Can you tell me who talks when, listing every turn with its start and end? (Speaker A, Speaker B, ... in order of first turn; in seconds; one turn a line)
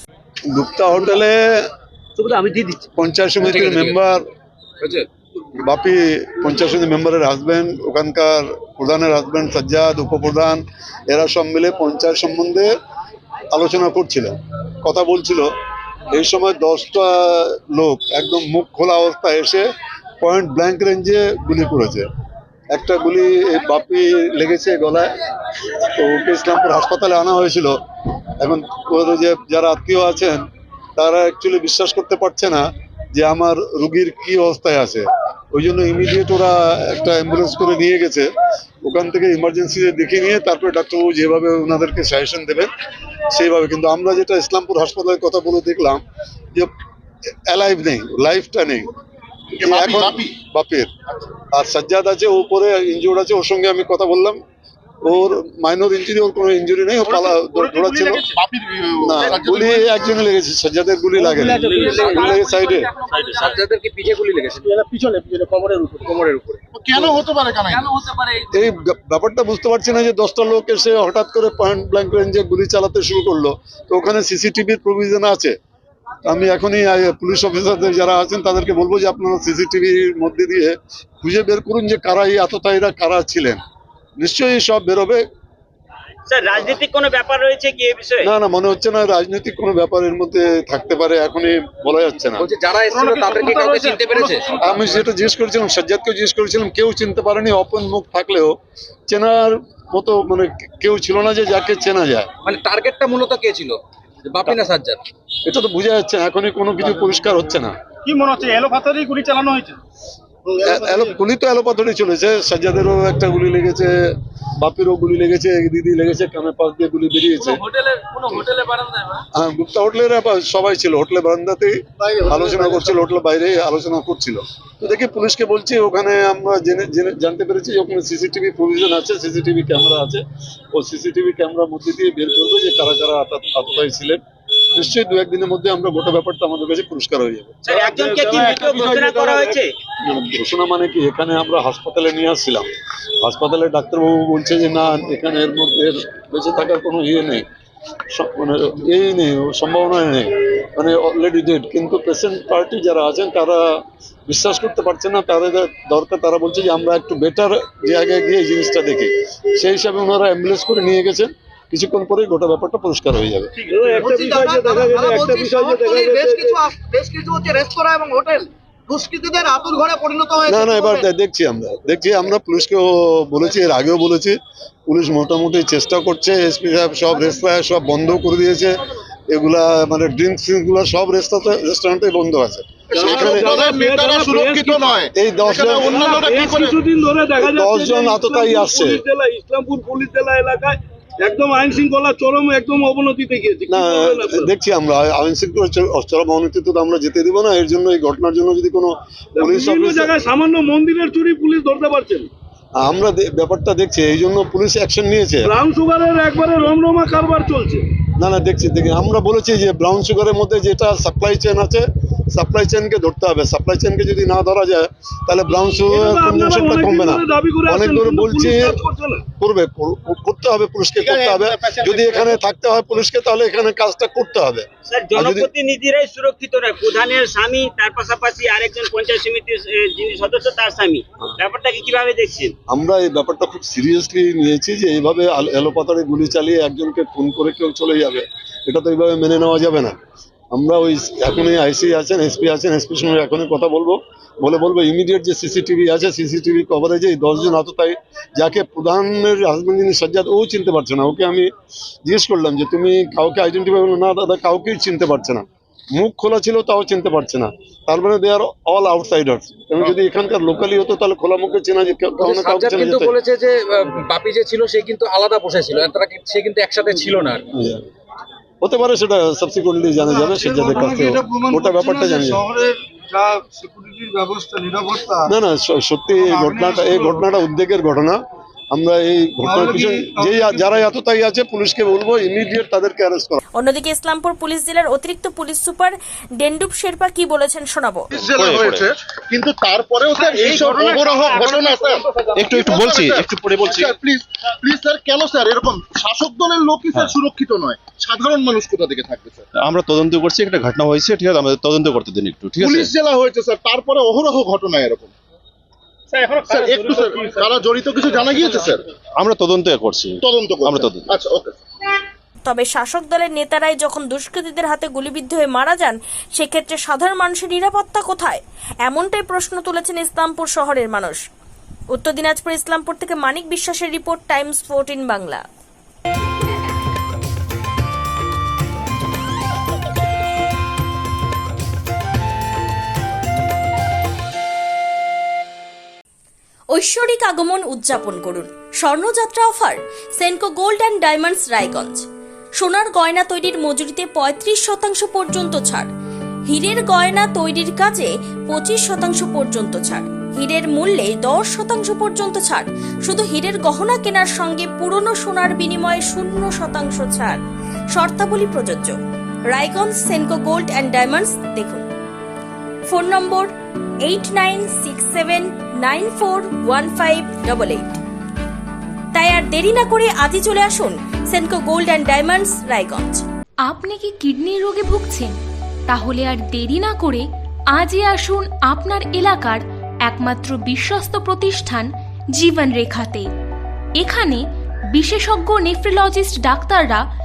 Speaker A: 0.5-1.6
Speaker A: 3.0-4.2
Speaker B: 3.4-4.0
Speaker A: 5.6-12.7
Speaker A: 13.5-15.5
Speaker A: 16.1-19.7
Speaker A: 20.2-22.1
Speaker A: 22.7-25.1
Speaker A: 25.8-27.8
Speaker A: 28.4-30.4
Speaker A: 31.0-32.6
Speaker A: 33.1-38.3
Speaker A: 38.8-42.7
Speaker A: 43.3-46.0
Speaker A: 47.5-48.9
Speaker A: 49.6-50.9
Speaker C: 49.6-50.3
Speaker A: 51.5-54.4
Speaker A: 55.0-58.3
Speaker C: 57.2-59.9
Speaker A: 59.0-62.9
Speaker B: 61.3-67.2
Speaker C: 66.7-67.9
Speaker B: 67.7-68.5
Speaker A: 68.5-75.5
Speaker A: 76.2-83.6
Speaker A: 84.2-85.2
Speaker D: 86.3-88.2
Speaker A: 88.2-92.5
Speaker B: 92.4-94.6
Speaker A: 94.6-98.5
Speaker A: 99.1-102.3
Speaker B: 102.5-105.0
Speaker A: 105.5-107.7
Speaker E: 110.5-111.2
Speaker A: 110.6-113.9
Speaker A: 114.6-117.6
Speaker A: 119.3-130.2
Speaker E: 122.1-123.0
Speaker A: 130.7-134.2
Speaker A: 134.7-138.8
Speaker F: 137.8-139.5
Speaker D: 138.6-138.9
Speaker A: 140.1-142.7
Speaker A: 143.2-147.4
Speaker A: 148.1-163.5
Speaker F: 163.7-166.5
Speaker E: 163.9-171.1
Speaker A: 170.4-178.8
Speaker A: 179.3-183.6
Speaker C: 182.9-186.8
Speaker F: 183.0-184.9
Speaker A: 185.2-185.9
Speaker F: 185.8-194.5
Speaker A: 187.4-189.0
Speaker A: 193.7-200.3
Speaker F: 199.4-202.3
Speaker A: 202.8-205.5
Speaker F: 205.5-207.8
Speaker A: 208.2-218.8
Speaker F: 215.9-219.2
Speaker A: 219.4-225.5
Speaker E: 221.0-222.3
Speaker D: 225.0-231.0
Speaker D: 231.6-232.6
Speaker A: 232.7-239.9
Speaker A: 240.5-251.5
Speaker A: 252.1-255.4
Speaker A: 255.9-263.1
Speaker B: 262.2-267.4
Speaker A: 267.5-267.8
Speaker A: 268.6-272.5
Speaker F: 270.6-272.2
Speaker E: 270.8-271.5
Speaker E: 272.3-275.1
Speaker A: 275.3-278.2
Speaker F: 276.3-277.0
Speaker A: 278.7-283.4
Speaker F: 279.5-280.6
Speaker G: 283.6-288.1
Speaker C: 288.1-299.5
Speaker H: 288.2-288.9
Speaker E: 290.1-291.9
Speaker H: 292.3-293.9
Speaker H: 299.6-302.9
Speaker C: 302.6-305.1
Speaker C: 306.4-308.8
Speaker H: 309.2-311.1
Speaker C: 310.2-311.6
Speaker G: 312.4-321.2
Speaker G: 321.9-325.4
Speaker G: 336.7-342.1
Speaker G: 342.6-345.9
Speaker G: 346.5-357.4
Speaker G: 357.9-359.0
Speaker G: 359.5-361.9
Speaker G: 362.9-363.5
Speaker G: 364.0-368.0
Speaker G: 369.1-373.2
Speaker I: 373.7-375.3
Speaker I: 375.9-383.3
Speaker I: 384.0-387.0